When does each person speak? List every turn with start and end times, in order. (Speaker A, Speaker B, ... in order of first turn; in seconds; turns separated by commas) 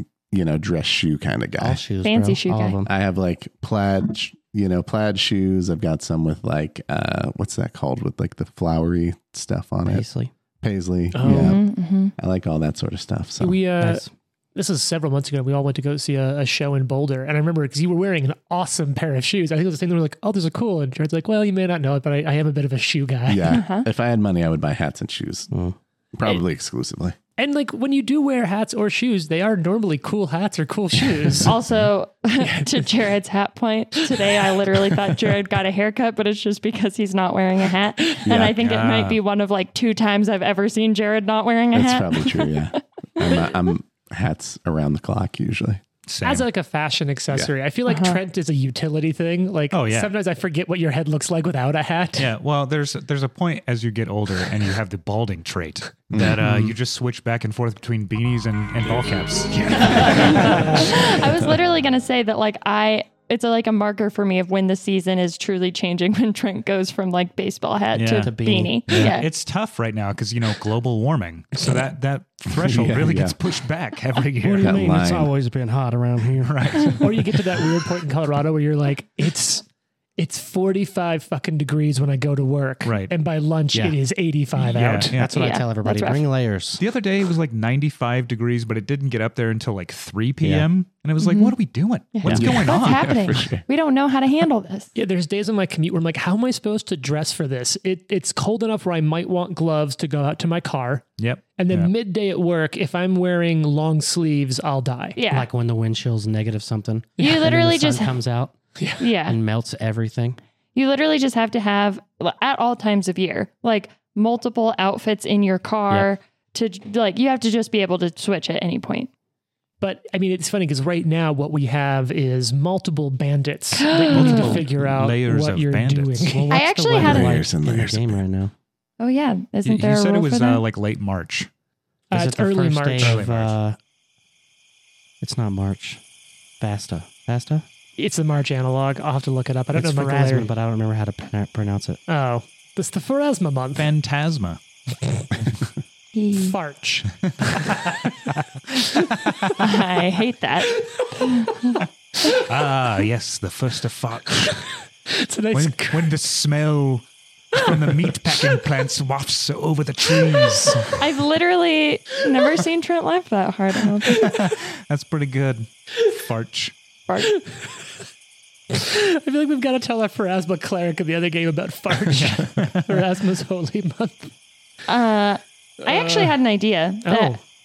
Speaker A: 0.3-1.8, Speaker B: 1.6-2.9, Speaker C: 2.0-2.8, Speaker A: 2.9-10.0, Speaker B: 9.8-10.3, Speaker A: 10.6-11.6, Speaker D: 11.1-11.6, Speaker C: 11.3-12.1, Speaker A: 12.1-13.7, Speaker D: 13.4-14.0, Speaker B: 13.8-14.1, Speaker D: 14.5-23.5, Speaker A: 23.2-25.5, Speaker C: 23.5-23.9, Speaker B: 25.5-25.8, Speaker A: 26.1-27.2, Speaker D: 27.4-31.5, Speaker C: 31.4-42.5, Speaker D: 32.4-32.9, Speaker A: 38.2-38.6, Speaker E: 38.5-39.2, Speaker A: 41.7-45.8, Speaker E: 46.1-46.5, Speaker D: 46.2-52.3, Speaker C: 47.9-48.2, Speaker E: 49.7-50.1, Speaker E: 52.2-61.0, Speaker A: 56.1-56.5, Speaker B: 56.2-56.7, Speaker C: 59.8-69.3, Speaker D: 59.9-60.9, Speaker E: 67.9-68.3, Speaker B: 68.2-69.1, Speaker E: 68.9-74.7, Speaker A: 72.5-73.3, Speaker B: 74.4-76.8, Speaker A: 74.6-75.3, Speaker E: 76.4-77.3, Speaker D: 77.0-79.7, Speaker D: 80.2-85.1, Speaker E: 82.8-83.1, Speaker B: 83.7-84.0, Speaker E: 84.6-85.4, Speaker B: 85.1-86.8, Speaker C: 85.3-86.2, Speaker E: 86.8-93.2, Speaker B: 90.4-90.7, Speaker C: 91.2-91.5, Speaker C: 92.1-94.9, Speaker B: 92.2-92.5, Speaker A: 92.3-93.6, Speaker D: 94.9-101.0, Speaker E: 101.2-101.9, Speaker D: 101.5-105.2, Speaker C: 105.2-105.5, Speaker B: 105.3-108.5, Speaker C: 107.2-108.1, Speaker C: 109.0-109.4, Speaker B: 109.2-110.4, Speaker C: 110.7-119.1, Speaker D: 119.8-126.7, Speaker C: 123.8-124.6, Speaker E: 124.0-126.5, Speaker B: 126.4-128.5, Speaker C: 126.5-127.3, Speaker A: 126.9-128.2, Speaker C: 129.0-130.6, Speaker E: 129.6-131.5, Speaker D: 132.1-133.2, Speaker B: 132.1-133.8, Speaker E: 133.0-133.5, Speaker B: 135.2-136.0, Speaker B: 136.6-137.7, Speaker D: 138.0-140.5, Speaker B: 139.7-142.0, Speaker D: 142.1-143.9, Speaker E: 143.7-144.6, Speaker C: 146.1-146.6, Speaker D: 146.3-148.0, Speaker E: 148.9-149.6, Speaker C: 149.6-151.8, Speaker D: 150.9-152.4, Speaker E: 152.3-154.7, Speaker D: 155.1-156.1, Speaker E: 155.5-161.0, Speaker D: 160.2-160.9, Speaker C: 161.0-164.3, Speaker D: 164.0-164.5, Speaker E: 164.2-166.7, Speaker D: 167.2-167.9, Speaker D: 168.7-174.3, Speaker E: 172.1-173.0, Speaker C: 174.8-177.3, Speaker D: 175.8-176.3, Speaker D: 177.0-177.4